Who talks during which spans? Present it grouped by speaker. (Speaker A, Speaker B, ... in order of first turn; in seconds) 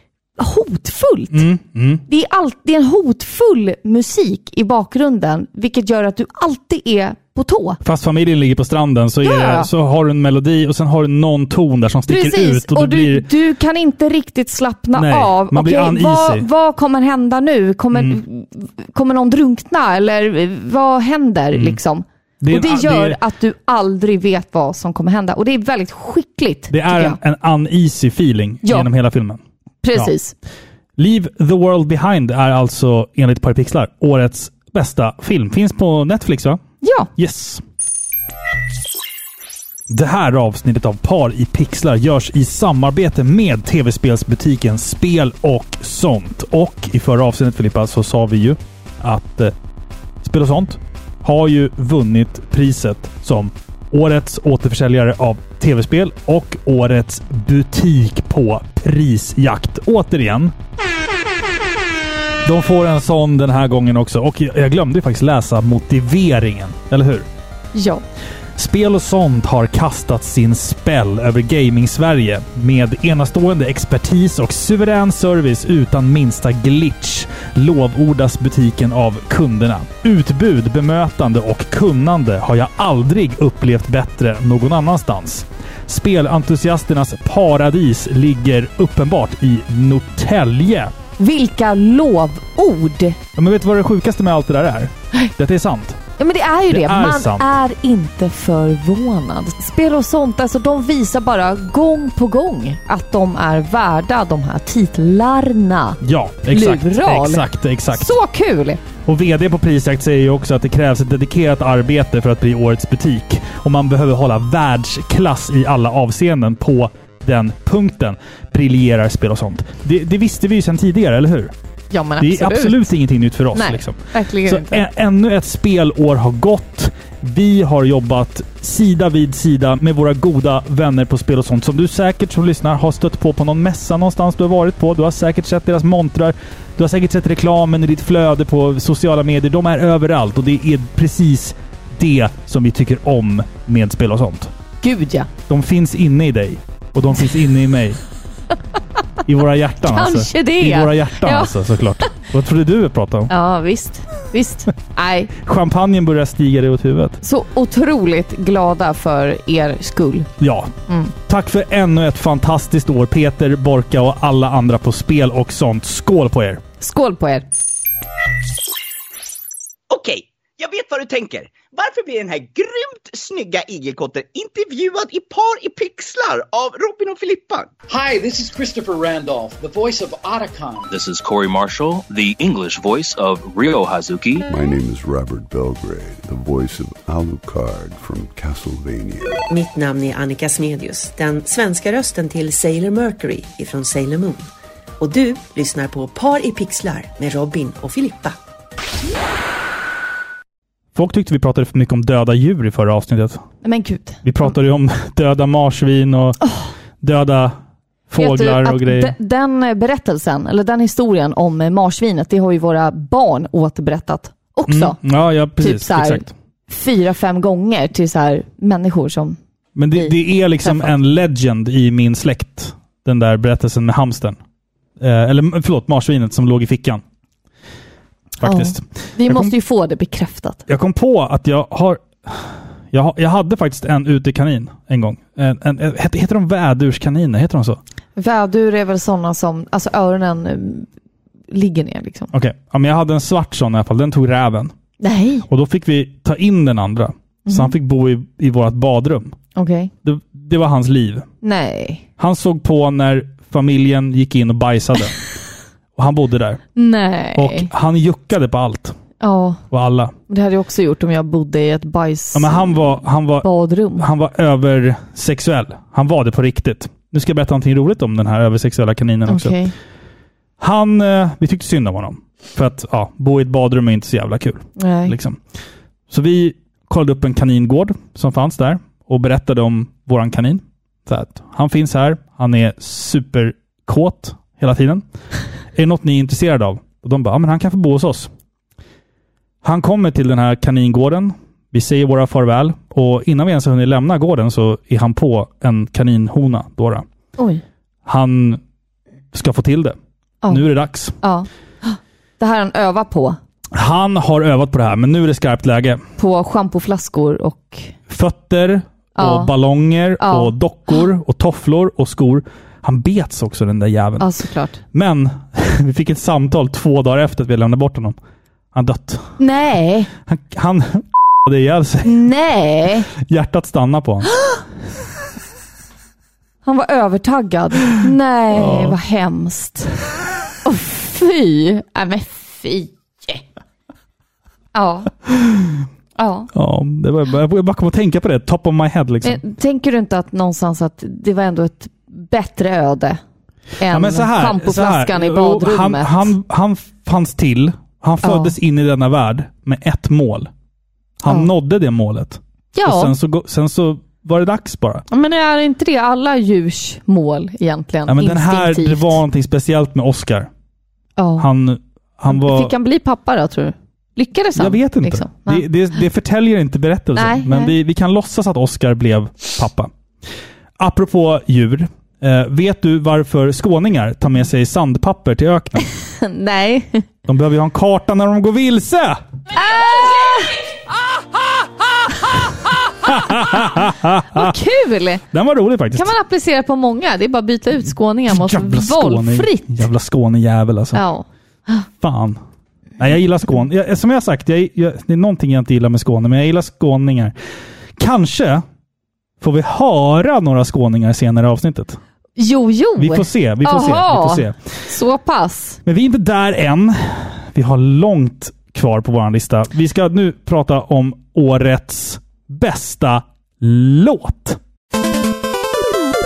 Speaker A: 0.4-1.4, 2.1-7.8, 9.2-9.7, 12.1-27.2, 28.6-28.9, 29.8-30.3, 36.8-37.1, 67.7-68.0, 91.2-93.2, 96.2-108.8, 121.9-122.9, 123.5-124.8, 144.8-145.3, 149.8-151.5, 153.3-155.3, 157.2-160.3, 166.8-167.4, 203.6-204.5, 206.4-206.7, 208.2-215.0, 215.6-219.4, 219.9-220.9, 228.4-230.6, 238.2-240.9, 241.5-242.3, 245.0-245.5, 247.5-247.7, 249.6-249.9, 251.4-252.1, 256.8-257.7, 259.2-259.6, 260.3-262.8, 263.4-264.1, 269.3-269.7, 274.8-275.2, 301.2-303.4, 306.2-307.9, 309.2-309.5, 310.2-311.0, 314.2-314.8, 319.4-320.1, 322.0-323.1, 326.6-329.9, 330.6-333.4, 334.7-335.2, 336.2-336.5, 339.2-343.2, 343.8-346.3, 348.2-348.6, 352.7-353.1, 355.1-359.2, 361.2-361.5, 362.3-365.6, 367.1-367.7, 375.8-377.1, 379.5-380.6, 384.3-385.2, 385.9-389.8, 390.9-391.8, 402.4-405.8
Speaker B: 1.3-2.0, 7.8-13.3, 14.9-16.4, 17.9-18.2, 22.4-23.2, 26.7-29.4, 31.0-36.6, 37.1-37.6, 39.9-49.5, 50.2-60.5, 62.5-67.3, 68.5-90.9, 93.4-96.0, 96.7-97.5, 106.0-108.2, 109.0-121.5, 122.2-144.5, 145.5-148.0, 149.3-153.3, 155.4-157.2, 160.4-160.7, 161.3-166.6, 200.9-203.4, 204.2-206.4, 207.0-207.6, 208.1-209.1, 214.7-216.3, 219.8-224.4, 225.0-227.0, 228.4-229.5, 230.7-237.8, 242.3-244.7, 245.5-249.3, 250.0-251.3, 252.2-255.1, 255.9-256.6, 257.3-258.9, 259.7-260.1, 262.3-269.6, 270.6-275.4, 276.1-285.0, 285.7-288.3, 289.6-297.1, 298.1-298.6, 299.3-299.9, 300.5-301.1, 303.7-306.0, 308.1-314.3, 314.9-318.2, 318.7-319.3, 320.3-322.1, 323.2-324.3, 328.5-329.0, 336.5-339.4, 343.9-350.5, 351.2-355.0, 358.1-360.5, 361.4-362.7, 364.6-369.9, 370.8-375.8, 377.3-379.2, 383.0-384.6, 385.3-386.1, 388.3-391.0, 392.0-392.4, 393.0-397.4, 398.0-398.6, 399.4-402.0, 403.0-404.6, 405.8-414.6
Speaker C: 169.9-177.7
Speaker D: 177.9-180.9
Speaker E: 180.9-184.4
Speaker F: 184.5-189.4
Speaker G: 189.5-198.4